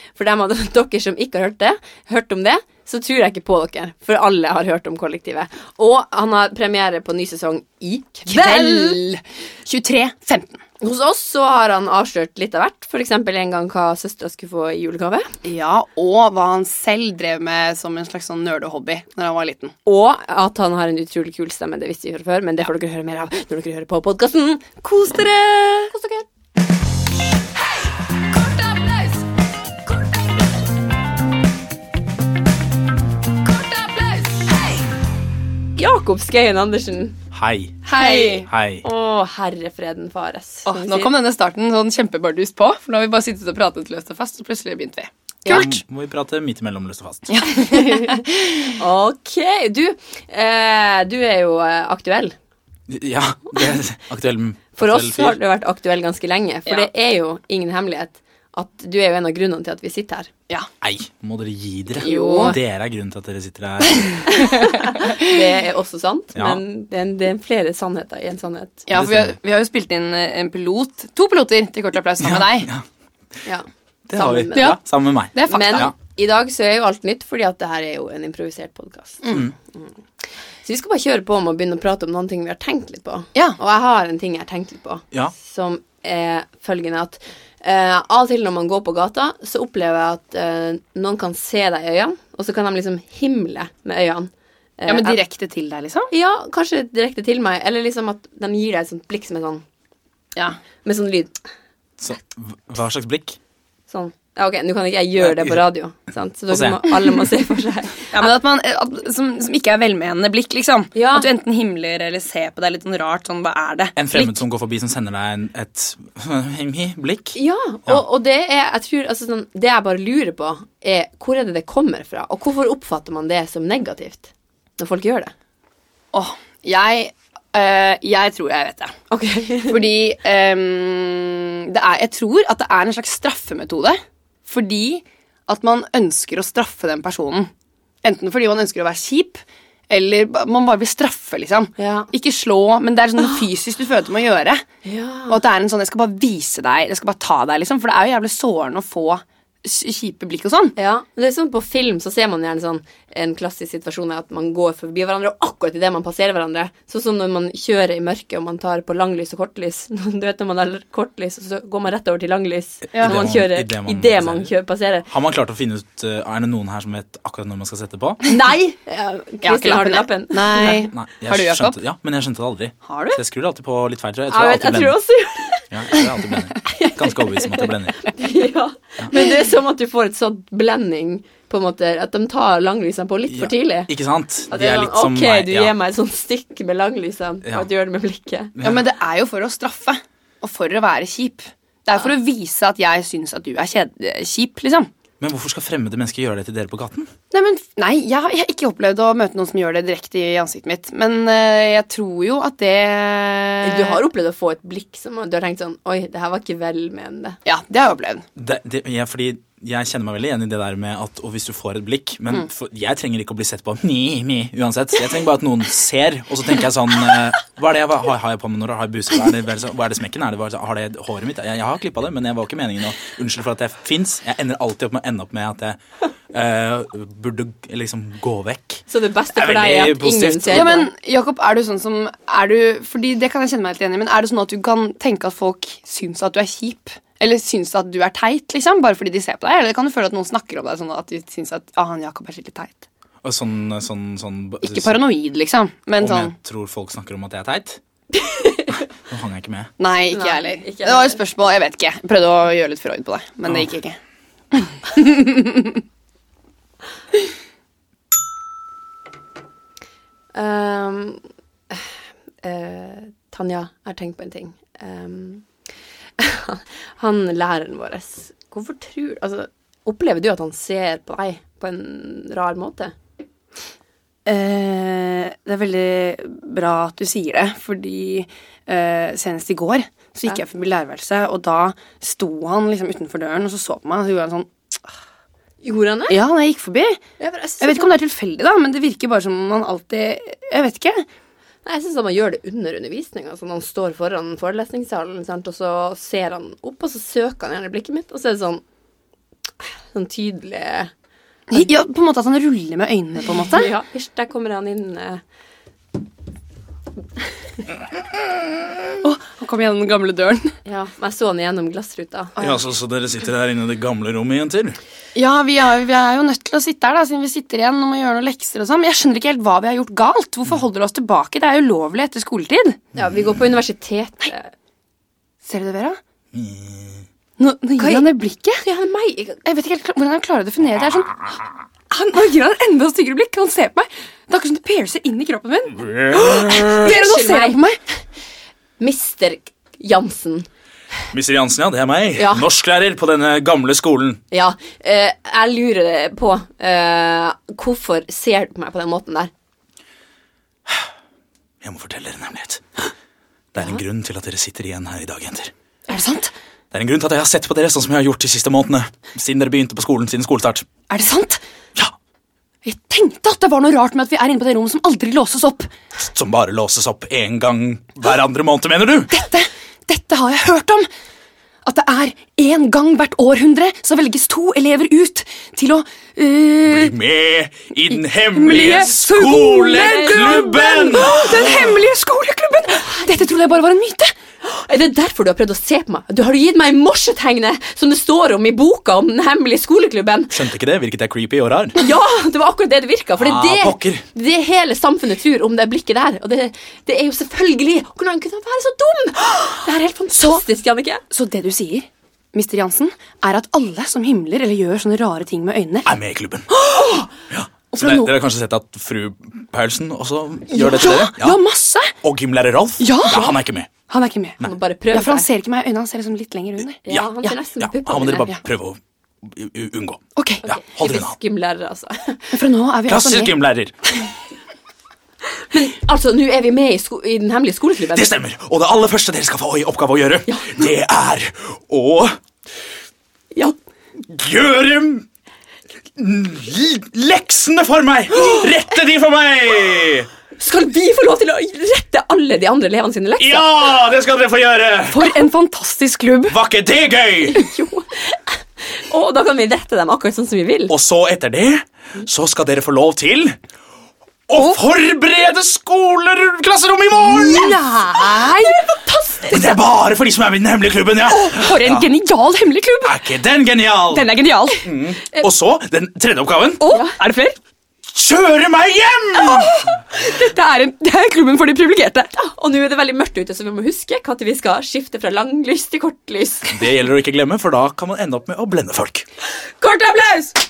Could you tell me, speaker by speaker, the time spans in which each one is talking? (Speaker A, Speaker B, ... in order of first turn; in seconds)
Speaker A: 0.1-9.0, 10.8-15.3, 19.9-26.2, 35.8-37.2, 38.0-41.1, 45.4-45.7, 47.4-52.3, 54.8-60.3, 62.0-62.5, 64.2-68.9, 73.4-74.8, 75.5-79.2, 80.6-95.2, 96.1-99.6, 100.8-101.4, 103.9-108.3, 110.9-111.3, 117.3-125.3, 129.1-129.9, 141.8-142.1, 144.8-145.4, 150.8-165.1, 168.2-170.8, 174.3-176.0, 176.6-183.9, 184.5-188.5, 203.6-207.4, 228.9-230.9, 248.2-248.8, 250.1-251.2, 260.3-261.9, 262.4-265.4, 266.2-272.9, 285.6-286.2, 287.2-287.9, 291.6-298.6, 299.6-300.9, 303.2-305.2, 310.6-312.4, 322.9-324.5, 327.8-329.4, 336.5-337.6, 338.8-340.5, 342.1-342.5, 344.3-349.3, 379.6-381.5, 382.8-383.1, 384.4-390.4, 391.8-401.0, 414.4-415.3, 416.8-418.3, 420.4-422.4, 425.5-428.1, 430.3-430.6, 440.4-443.5, 447.3-450.7, 457.9-459.6, 466.7-466.9, 472.1-476.6
Speaker B: 8.3-10.6, 15.4-19.7, 24.8-25.9, 28.7-29.1, 33.8-34.5, 37.8-38.5, 40.6-45.7, 47.3-48.8, 61.9-62.5, 64.5-65.3, 68.9-72.7, 75.3-75.9, 94.8-96.1, 108.1-114.4, 126.1-128.9, 129.7-137.5, 138.0-144.6, 145.3-150.7, 162.9-163.2, 169.4-171.8, 172.8-173.2, 188.6-194.9, 197.3-204.0, 207.4-208.2, 230.5-242.8, 244.6-246.3, 249.8-254.0, 254.5-255.8, 274.2-284.5, 286.1-287.0, 287.6-291.1, 301.5-303.7, 309.0-310.5, 315.1-322.8, 325.4-326.0, 327.4-328.6, 329.4-331.2, 331.9-337.8, 355.9-356.3, 360.9-361.4, 362.6-365.7, 369.1-370.9, 371.6-376.9, 378.3-384.1, 400.1-400.4, 401.1-405.9, 407.7-408.1, 410.5-411.9, 412.8-414.4, 414.9-417.3, 420.1-420.4, 422.3-423.3, 444.9-446.4, 456.9-458.6, 461.1-463.0, 463.9-464.7, 466.6-467.4, 469.1-472.1, 479.6-480.3
Speaker C: 37.3-37.8, 38.5-38.8, 45.5-47.4, 52.9-55.4, 60.8-64.3, 66.3-66.6, 68.9-69.3, 72.2-72.8, 74.1-75.9, 102.0-103.4, 105.2-105.6, 106.5-106.9, 114.0-118.0, 162.9-164.5, 165.1-168.2, 170.7-175.0, 175.7-178.0, 183.3-185.7, 188.6-188.8, 195.2-197.1, 208.3-225.8, 226.3-230.8, 243.2-245.0, 246.0-247.8, 248.7-249.7, 312.4-314.8, 323.0-323.4, 326.3-327.0, 335.8-336.9, 341.1-344.2, 351.6-352.6, 353.5-355.5, 356.7-360.7, 366.0-369.1, 376.6-381.8, 390.3-391.8, 393.2-394.0, 405.8-411.4, 412.0-413.7, 416.9-421.2, 422.9-423.7, 427.9-432.2, 434.0-435.1, 435.9-440.1, 443.2-445.2, 446.3-447.4, 450.7-453.4, 454.3-457.6, 459.3-461.9, 462.8-466.6, 467.9-469.7, 476.5-479.1